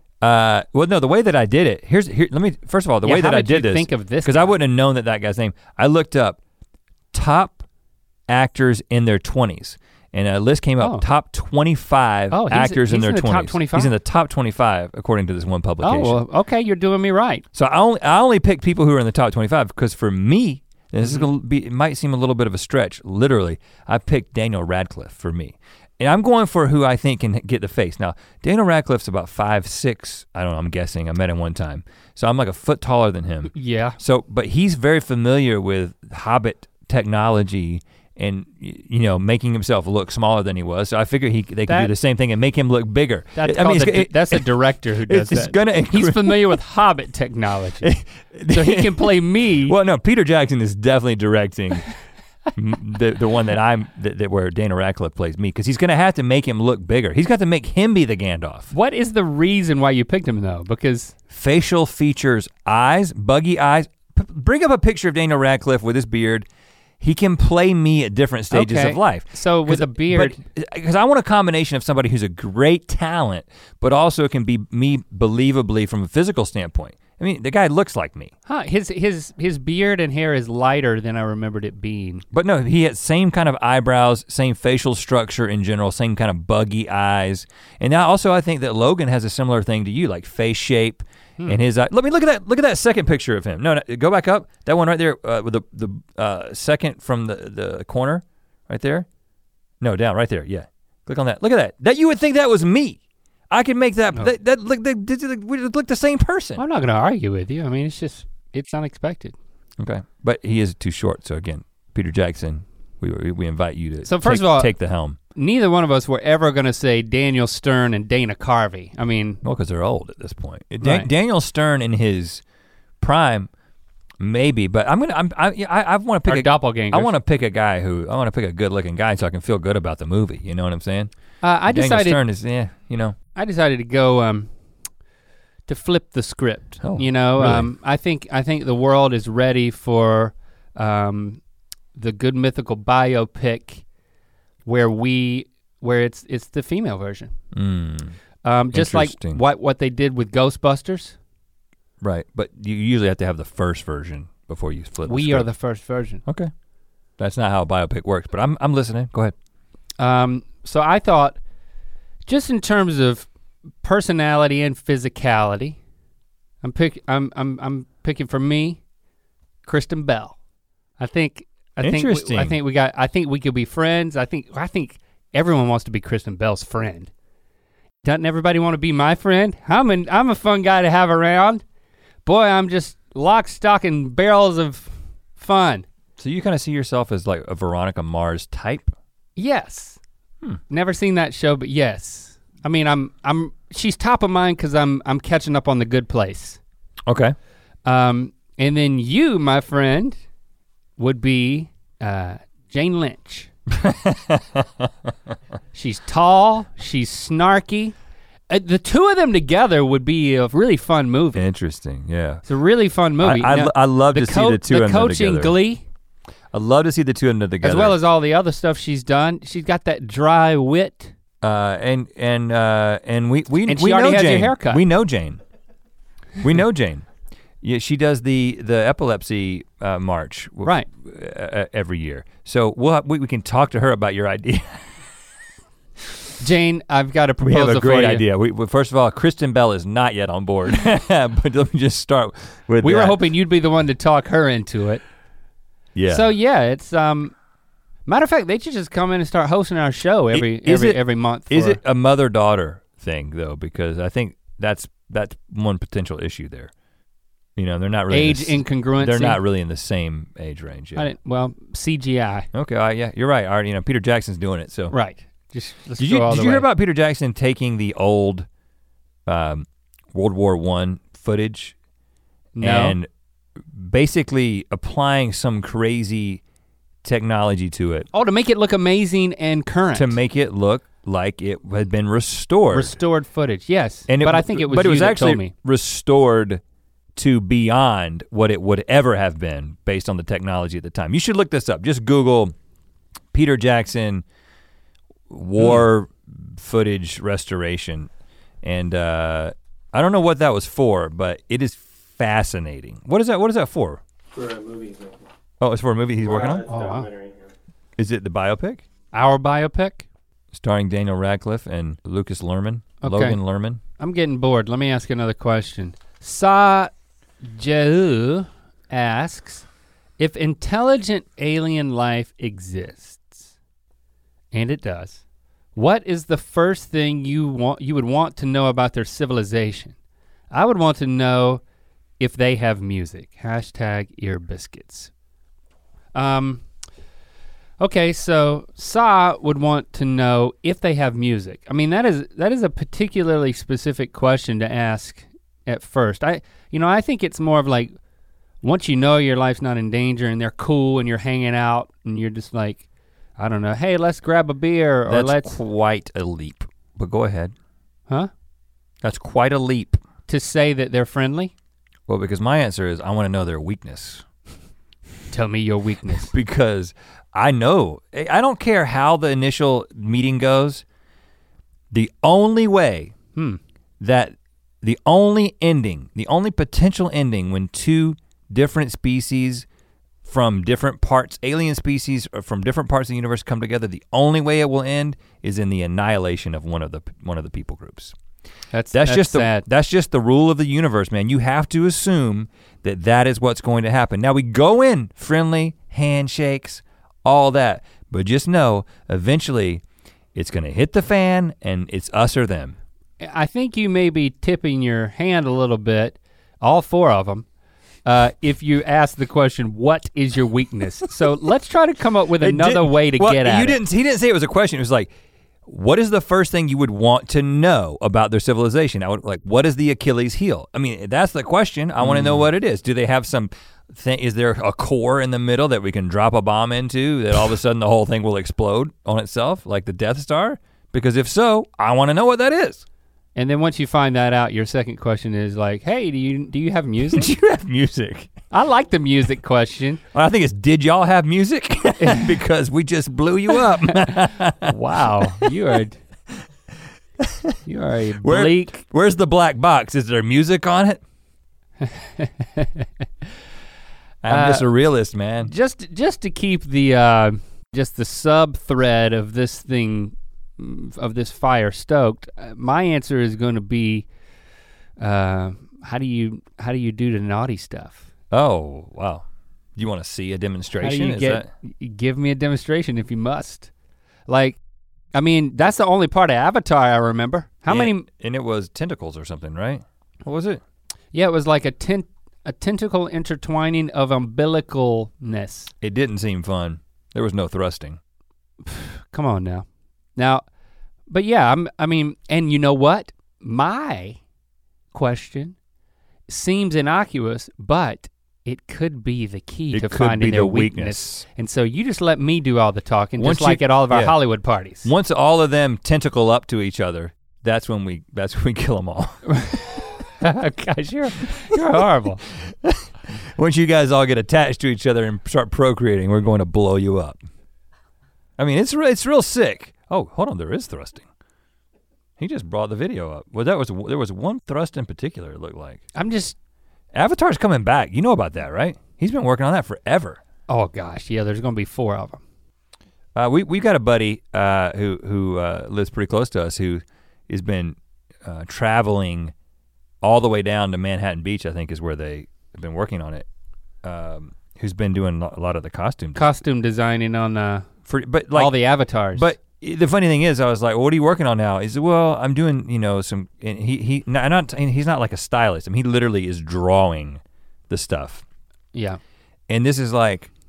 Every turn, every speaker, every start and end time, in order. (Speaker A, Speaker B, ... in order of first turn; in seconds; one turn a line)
Speaker A: 0.2-6.4
Speaker B: 3.0-4.6
Speaker A: 7.1-7.6
Speaker A: 8.3-16.2
Speaker B: 12.3-13.9
Speaker B: 15.8-17.4
Speaker A: 17.5-44.5
Speaker B: 33.5-34.0
Speaker B: 41.7-41.9
Speaker B: 43.4-47.9
Speaker A: 45.1-46.6
Speaker A: 47.8-51.9
Speaker B: 48.5-49.8
Speaker A: 52.5-58.7
Speaker B: 58.7-61.1
Speaker A: 61.3-66.5
Speaker A: 67.0-78.3
Speaker B: 68.5-70.4
Speaker B: 78.5-82.2
Speaker A: 82.3-99.1
Speaker A: 99.8-103.0
Speaker A: 103.5-106.6
Speaker B: 106.6-109.4
Speaker A: 109.8-115.2
Speaker B: 114.0-114.7
Speaker B: 115.3-119.4
Speaker A: 119.4-122.4
Speaker B: 120.8-121.1
Speaker A: 123.0-123.5
Speaker A: 124.2-131.1
Speaker B: 126.3-127.1
Speaker B: 131.4-132.2
Speaker A: 131.7-133.2
Speaker B: 133.4-134.5
Speaker B: 135.7-141.4
Speaker A: 136.8-137.7
Speaker B: 141.9-143.8
Speaker B: 144.7-147.3
Speaker A: 147.5-148.2
Speaker B: 148.4-151.2
Speaker A: 148.7-149.4
Speaker A: 152.0-155.5
Speaker B: 155.1-156.2
Speaker A: 156.3-156.5
Speaker A: 157.2-159.3
Speaker B: 160.0-161.4
Speaker B: 162.3-163.3
Speaker B: 163.8-165.8
Speaker B: 166.6-168.8
Speaker B: 169.7-170.4
Speaker B: 171.0-177.1
Speaker A: 171.8-172.6
Speaker B: 178.0-181.6
Speaker B: 182.2-185.9
Speaker A: 186.2-188.9
Speaker B: 189.4-190.0
Speaker B: 190.7-196.6
Speaker A: 197.1-197.3
Speaker B: 197.8-200.2
Speaker B: 201.0-203.5
Speaker A: 203.7-204.9
Speaker B: 205.7-207.9
Speaker B: 208.5-211.4
Speaker A: 211.3-212.4
Speaker B: 212.5-215.8
Speaker A: 213.2-215.6
Speaker A: 216.5-218.0
Speaker B: 217.6-221.1
Speaker A: 221.4-225.4
Speaker B: 223.7-224.8
Speaker A: 226.4-227.1
Speaker A: 227.6-234.9
Speaker B: 236.4-238.2
Speaker A: 237.4-243.2
Speaker B: 242.8-245.0
Speaker A: 245.9-246.3
Speaker B: 246.1-247.3
Speaker B: 248.1-251.8
Speaker A: 250.3-256.7
Speaker A: 257.6-261.1
Speaker B: 258.1-259.4
Speaker B: 260.9-262.5
Speaker A: 262.5-264.9
Speaker B: 264.9-266.7
Speaker A: 266.0-268.5
Speaker A: 269.3-271.8
Speaker B: 272.6-273.0
Speaker A: 272.6-273.1
Speaker A: 273.7-276.4
Speaker A: 277.0-278.1
Speaker B: 278.1-280.2
Speaker A: 279.9-283.0
Speaker B: 282.7-285.5
Speaker A: 284.1-286.6
Speaker A: 287.2-292.5
Speaker A: 293.3-294.2
Speaker A: 295.3-298.1
Speaker A: 298.6-304.0
Speaker C: 304.3-305.3
Speaker A: 305.6-306.6
Speaker C: 306.2-307.5
Speaker B: 306.7-307.1
Speaker A: 308.0-308.8
Speaker B: 309.1-310.1
Speaker A: 310.5-313.8
Speaker B: 313.0-313.4
Speaker B: 314.0-316.9
Speaker B: 317.4-319.7
Speaker B: 320.2-323.5
Speaker B: 324.5-325.2
Speaker B: 325.8-329.9
Speaker B: 330.5-331.6
Speaker B: 332.2-335.1
Speaker B: 336.1-336.6
Speaker B: 337.8-347.9
Speaker B: 348.6-352.8
Speaker B: 353.4-355.6
Speaker A: 355.1-357.5
Speaker A: 359.0-360.0
Speaker B: 360.3-361.5
Speaker A: 362.1-364.2
Speaker B: 365.3-366.3
Speaker A: 366.3-370.8
Speaker A: 371.9-373.1
Speaker A: 374.0-379.7
Speaker A: 380.2-388.1
Speaker B: 388.7-389.6
Speaker A: 388.9-399.8
Speaker A: 400.4-402.8
Speaker B: 403.2-407.5
Speaker B: 408.1-413.8
Speaker A: 412.4-415.1
Speaker A: 415.7-432.9
Speaker B: 422.0-422.5
Speaker B: 433.4-437.3
Speaker A: 437.1-438.3
Speaker B: 438.5-440.0
Speaker A: 440.1-445.5
Speaker B: 442.0-442.3
Speaker B: 444.6-446.0
Speaker A: 447.2-447.6
Speaker B: 447.7-448.8
Speaker A: 448.2-451.0
Speaker B: 451.8-452.9
Speaker A: 454.2-455.5
Speaker B: 454.3-454.7
Speaker B: 455.4-464.1
Speaker B: 465.0-468.1
Speaker A: 468.3-469.3
Speaker A: 469.8-471.5
Speaker B: 470.8-473.7
Speaker B: 474.3-474.6
Speaker B: 475.1-478.1
Speaker A: 477.7-480.6
Speaker B: 481.1-485.7
Speaker A: 485.8-488.0
Speaker B: 488.6-490.4
Speaker B: 491.1-494.2
Speaker B: 494.9-495.6
Speaker B: 496.3-504.9
Speaker A: 499.7-501.2
Speaker A: 503.2-504.2
Speaker A: 504.8-509.5
Speaker B: 509.3-512.2
Speaker A: 512.4-517.2
Speaker A: 518.4-521.1
Speaker A: 522.2-525.8
Speaker B: 526.0-526.4
Speaker A: 526.9-530.2
Speaker B: 530.5-532.2
Speaker A: 533.2-539.3
Speaker A: 540.0-543.3
Speaker A: 543.8-546.4
Speaker B: 546.1-547.7
Speaker A: 547.9-548.6
Speaker B: 548.3-549.3
Speaker A: 549.1-558.2
Speaker B: 558.7-559.0
Speaker A: 559.5-560.3